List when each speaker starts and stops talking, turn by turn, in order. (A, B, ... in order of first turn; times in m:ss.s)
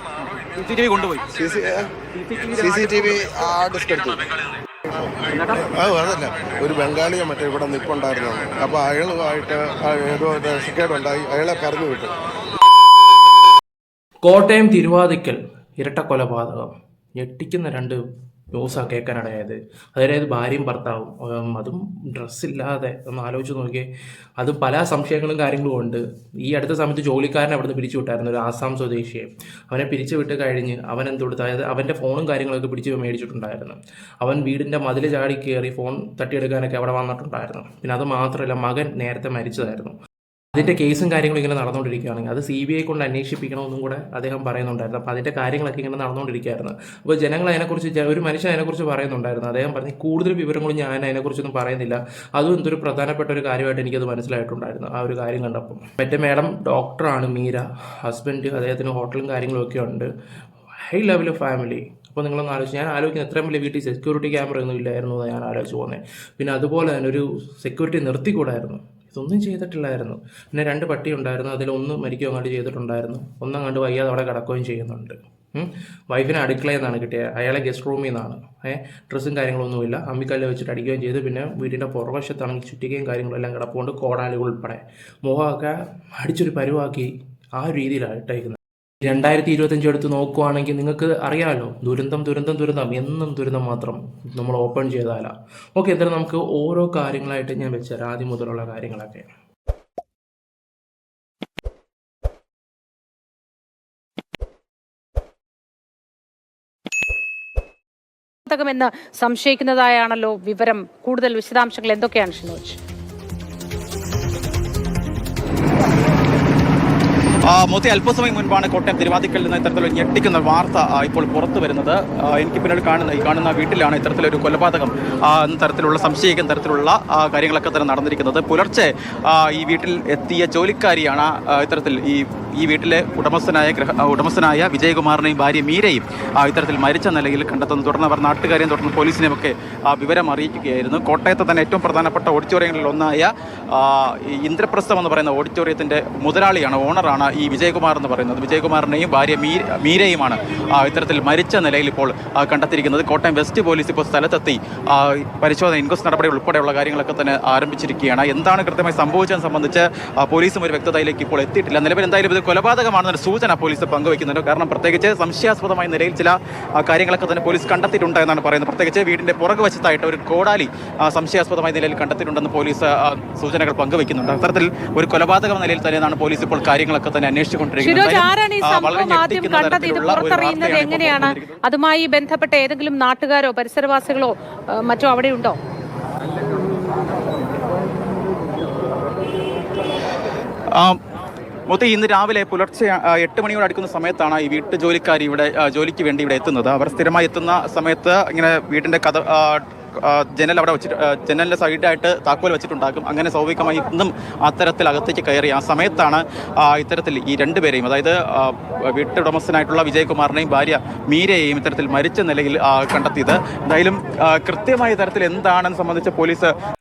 0:00.2-0:01.2 A
0:01.3-0:01.9 B
0:02.1-0:03.2 A
0:02.6-0:04.3 B
0:05.3-0:05.7 A
0:05.5-0:12.2 C
0:14.2-0:18.0 D
0:18.5-0:23.9 D
0:24.4-0:40.0 D
0:40.6-1:00.1 D
1:00.9-1:39.3 D
1:48.5-1:52.8 E
1:57.4-3:01.6 A
2:57.8-3:05.6 E
3:11.7-3:36.5 A